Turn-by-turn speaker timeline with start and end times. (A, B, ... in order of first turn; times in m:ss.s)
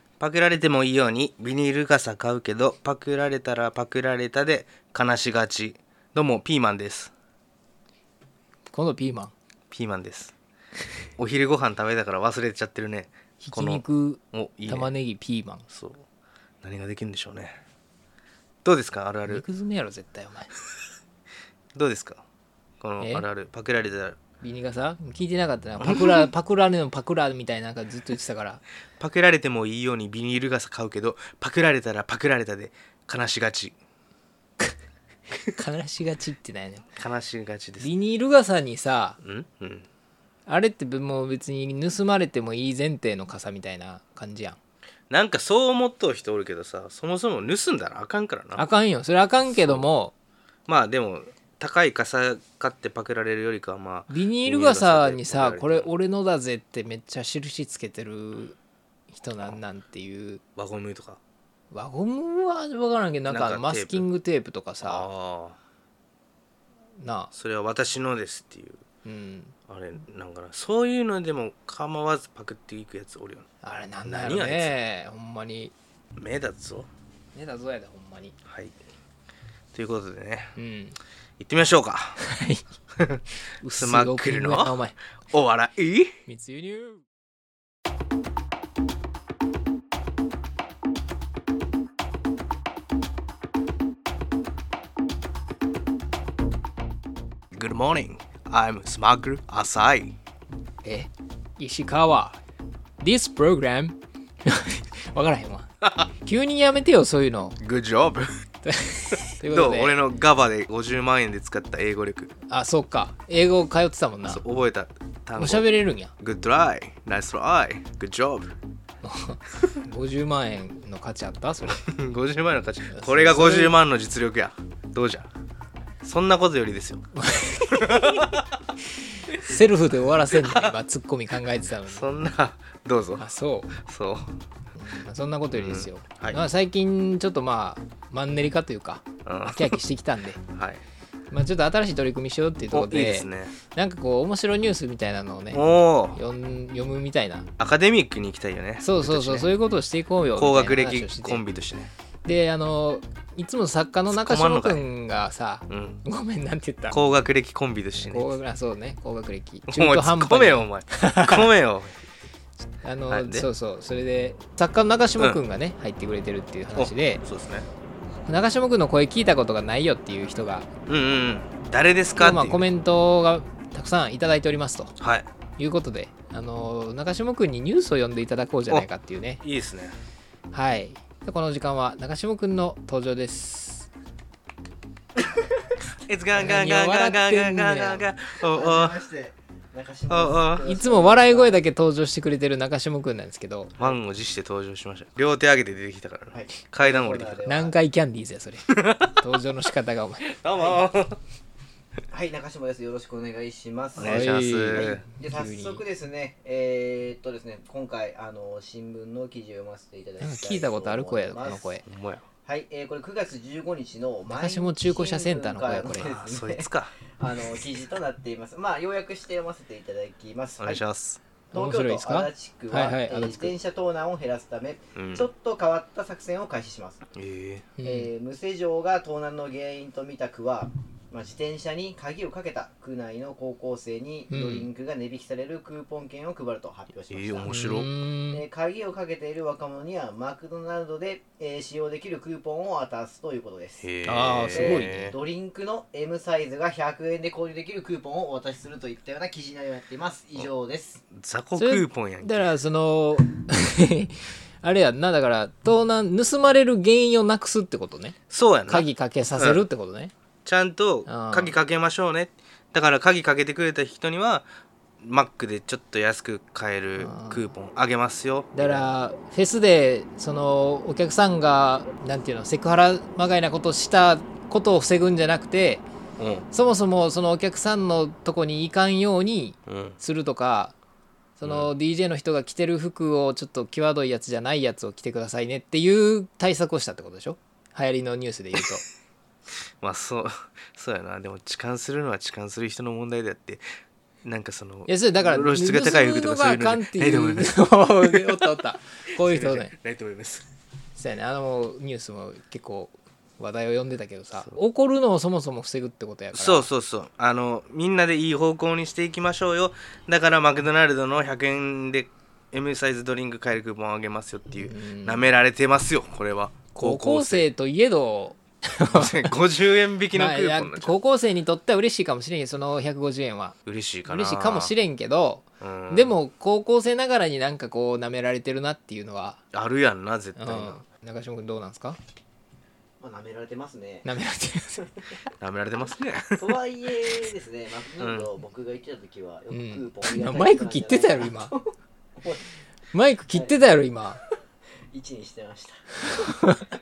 0:00.2-0:07.1 A
0:08.7-0:09.3 B
0:09.7-0:10.3 A
0:11.2-0:14.9 A
0:13.4-0:15.6 B
0:15.7-0:16.0 A
0:16.6-0:17.6 A
0:18.6-0:19.4 A
0:19.3-0:20.5 B
0:21.8-0:22.2 A
0:22.8-0:24.2 A
0:24.4-0:28.6 B
0:25.8-0:26.3 A
0:29.0-0:33.8 A
0:35.6-0:36.8 B
0:37.0-0:37.9 A
0:37.8-0:39.2 B
0:39.2-0:39.9 A
0:40.5-0:44.6 B
0:45.1-0:48.7 A
0:48.6-0:50.1 B
0:49.5-0:49.9 A
0:50.7-0:55.9 A
0:54.1-0:58.6 B
0:59.1-1:00.4 B
1:00.6-1:01.2 A
1:01.7-1:05.1 B
1:03.3-1:04.1 A
1:04.8-1:05.6 A
1:07.0-1:07.3 B
1:07.3-1:08.8 A
1:09.0-1:09.5 B
1:09.7-1:13.5 A
1:13.6-1:15.7 B
1:14.0-1:14.7 A
1:16.2-1:16.9 A
1:17.4-1:18.4 B
1:18.5-1:18.8 A
1:19.7-1:20.5 A
1:20.6-1:21.0 B
1:21.4-1:22.2 A
1:22.2-1:22.6 B
1:23.6-1:25.0 B
1:23.7-1:24.8 A
1:25.3-1:26.1 A
1:26.3-1:27.0 B
1:37.5-1:40.2 A
1:40.8-1:42.4 B
1:43.0-1:47.6 B
1:45.8-1:46.1 A
1:47.6-1:48.3 A
1:48.6-1:50.0 B
1:49.4-1:52.3 A
1:52.5-1:54.4 B
1:54.2-1:58.6 A
1:55.4-1:56.1 B
1:59.0-2:01.8 B
2:01.7-2:05.3 A
2:02.9-2:03.8 B
2:06.0-2:07.0 A
2:07.2-2:08.3 B
2:07.7-2:08.5 A
2:09.4-2:12.2 B
2:10.3-2:10.8 A
2:11.9-2:14.3 A
2:13.2-2:13.8 B
2:14.8-2:20.4 B
2:15.5-2:16.4 A
2:19.3-2:19.8 A
2:20.5-2:20.8 A
2:21.3-2:27.5 B
2:22.7-2:23.6 A
2:25.5-2:26.2 A
2:27.6-2:29.5 A
2:28.8-2:31.4 B
2:30.4-2:31.9 A
2:32.2-2:37.0 B
2:34.1-2:34.9 A
2:35.7-2:36.0 A
2:36.9-2:38.4 A
2:38.0-2:41.5 B
2:39.7-2:42.0 A
2:42.8-2:47.2 B
2:43.1-2:43.5 A
2:46.8-2:47.7 A
2:48.3-2:50.7 B
2:50.9-2:52.6 A
2:52.2-2:55.0 B
2:55.0-2:55.3 A
2:55.6-2:59.4 B
2:59.4-3:00.0 A
3:00.5-3:03.9 B
3:06.1-3:09.0 A
3:06.4-3:08.1 B
3:08.5-3:11.6 C
3:10.1-3:10.6 A
3:10.6-3:13.7 B
3:13.8-3:17.4 A
3:16.3-3:17.8 C
3:17.5-3:20.3 B
3:18.7-3:19.2 A
3:20.3-3:21.2 A
3:20.6-3:20.8 C
3:22.1-3:31.8 C
3:24.0-3:25.0 A
3:24.0-3:25.8 B
3:30.2-3:31.9 B
3:31.9-3:32.2 A
3:32.4-3:40.8 C
3:34.3-3:36.1 B
3:36.0-3:37.0 A
3:40.6-3:41.2 A
3:41.5-3:43.6 B
3:41.5-3:47.0 C
3:45.0-3:45.3 A
3:47.1-3:47.7 A
3:47.8-3:48.1 B
3:47.8-3:57.5 C
3:54.3-3:54.7 B
3:57.1-3:57.9 A
3:57.5-3:58.4 B
3:58.3-4:03.9 C
4:03.8-4:05.2 A
4:04.0-4:05.1 B
4:04.5-4:11.0 C
4:11.1-4:12.5 A
4:11.6-4:18.2 B
4:18.3-4:19.7 A
4:18.7-4:20.1 B
4:20.4-4:24.5 A
4:21.1-4:21.6 B
4:25.0-4:28.9 A
4:27.0-4:27.5 B
4:28.6-4:35.8 B
4:36.2-4:36.5 A
4:36.5-4:40.8 B
4:39.7-4:40.0 A
4:41.4-4:48.8 B
4:41.4-4:41.7 A
4:49.8-4:53.6 A
4:54.2-4:58.6 A
4:54.9-4:59.7 B
4:59.2-5:00.5 A
5:01.0-5:06.7 B
5:06.3-5:17.5 A
5:14.5-5:15.4 B
5:16.7-5:19.3 B
5:18.8-5:21.0 A
5:20.1-5:23.6 B
5:23.6-5:24.7 A
5:24.1-5:29.4 B
5:25.6-5:26.2 A
5:29.5-5:30.8 A
5:30.4-5:32.0 B
5:33.0-5:34.1 C
5:34.0-5:34.9 B
5:35.4-5:36.5 A
5:36.4-5:41.6 C
5:38.0-5:38.3 A
5:39.5-5:41.5 B
5:42.2-5:42.4 C
5:42.9-5:44.2 B
5:44.9-5:46.0 C
5:46.2-5:46.6 B